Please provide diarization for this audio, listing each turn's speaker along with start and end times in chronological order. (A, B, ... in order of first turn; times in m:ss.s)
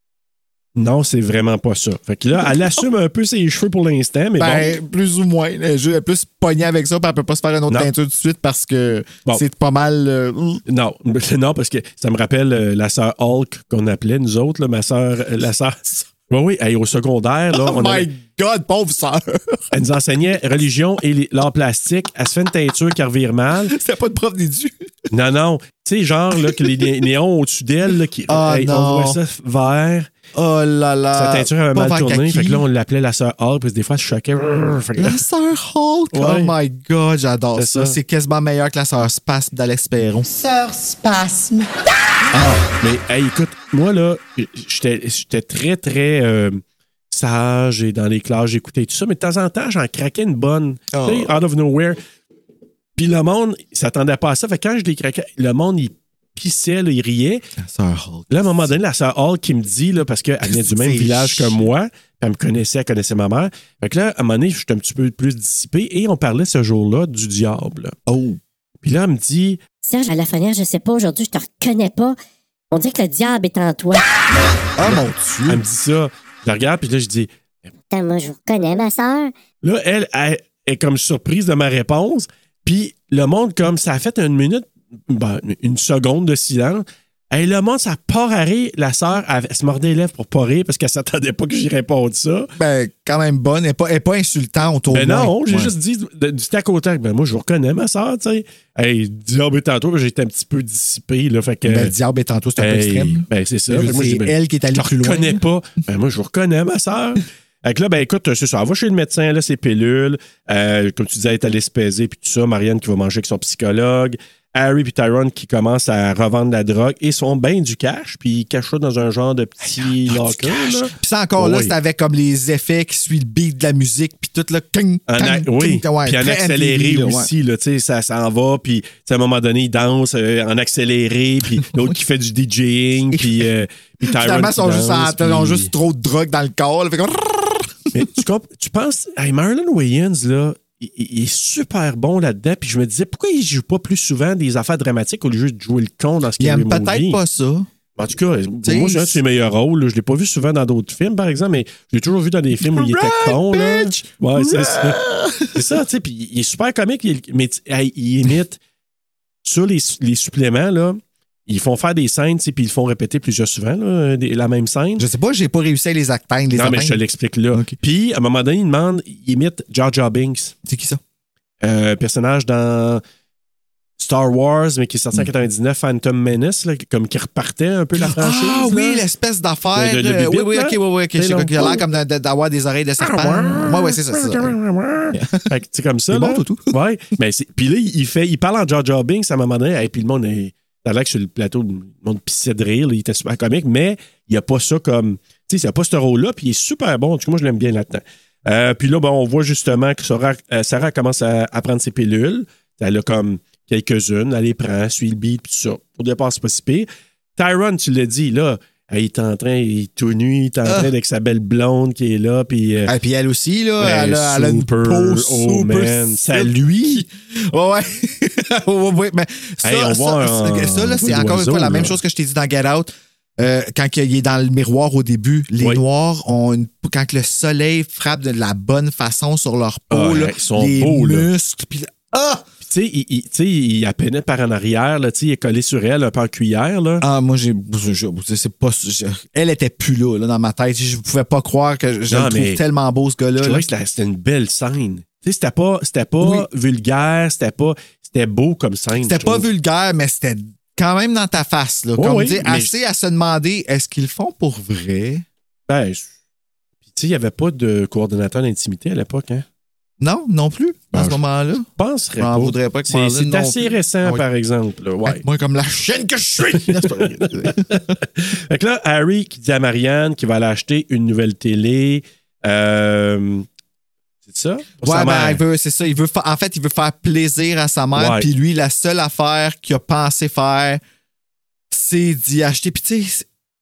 0:00.8-0:04.7 A
0:02.3-0:02.8 B
0:04.4-0:10.6 B
0:10.7-0:18.1 A
0:17.5-0:19.6 B
0:19.7-0:23.7 A
0:23.7-0:24.8 B
0:25.1-0:30.1 A
0:26.3-0:26.9 B
0:28.3-0:29.2 B
0:30.3-0:32.6 B
0:31.1-0:35.2 A
0:35.0-0:41.7 B
0:36.1-0:36.5 A
0:37.6-0:38.0 A
0:42.3-0:52.0 A
0:50.9-0:51.3 B
0:53.0-0:57.4 A
0:57.6-0:58.7 B
0:58.3-1:08.0 A
1:00.4-1:01.6 B
1:08.1-1:08.4 B
1:08.8-1:09.6 A
1:09.8-1:12.2 C
1:12.7-1:14.1 C
1:14.8-1:15.6 B
1:14.8-1:17.3 A
1:17.9-1:19.3 C
1:19.6-1:32.5 A
1:32.6-1:35.7 B
1:34.9-1:41.9 A
1:41.6-1:45.4 B
1:42.6-2:01.7 A
1:59.6-2:07.3 B
2:05.1-2:15.7 A
2:11.5-2:11.9 B
2:13.1-2:13.5 B
2:14.0-2:18.2 B
2:17.9-2:27.2 A
2:26.4-2:27.7 B
2:28.0-2:35.0 A
2:28.6-2:29.2 B
2:32.6-2:35.6 B
2:35.5-2:38.6 A
2:39.4-2:45.0 A
2:45.0-2:47.0 B
2:46.5-2:50.5 A
2:50.6-2:51.0 B
2:51.6-2:53.0 A
2:54.0-2:59.0 A
2:58.0-3:04.5 B
2:59.7-3:01.8 A
3:03.0-3:32.9 A
3:05.1-3:05.5 B
3:06.1-3:06.7 B
3:30.6-3:30.9 B
3:32.9-3:52.4 B
3:33.8-3:37.0 A
3:39.6-3:42.0 A
3:45.6-3:45.8 A
3:49.9-3:51.3 A
3:52.6-3:57.0 A
3:57.0-4:03.6 B
4:02.1-4:02.6 A
4:03.4-4:09.4 A
4:06.2-4:06.4 B
4:09.0-4:15.2 B
4:12.0-4:12.7 A
4:15.7-4:16.1 A
4:16.9-4:19.4 A
4:20.0-4:24.2 B
4:20.9-4:21.2 A
4:21.8-4:25.2 A
4:25.0-4:28.0 B
4:26.5-4:33.4 A
4:34.2-4:35.4 A
4:34.8-4:40.8 B
4:37.9-4:38.3 A
4:41.7-4:43.2 B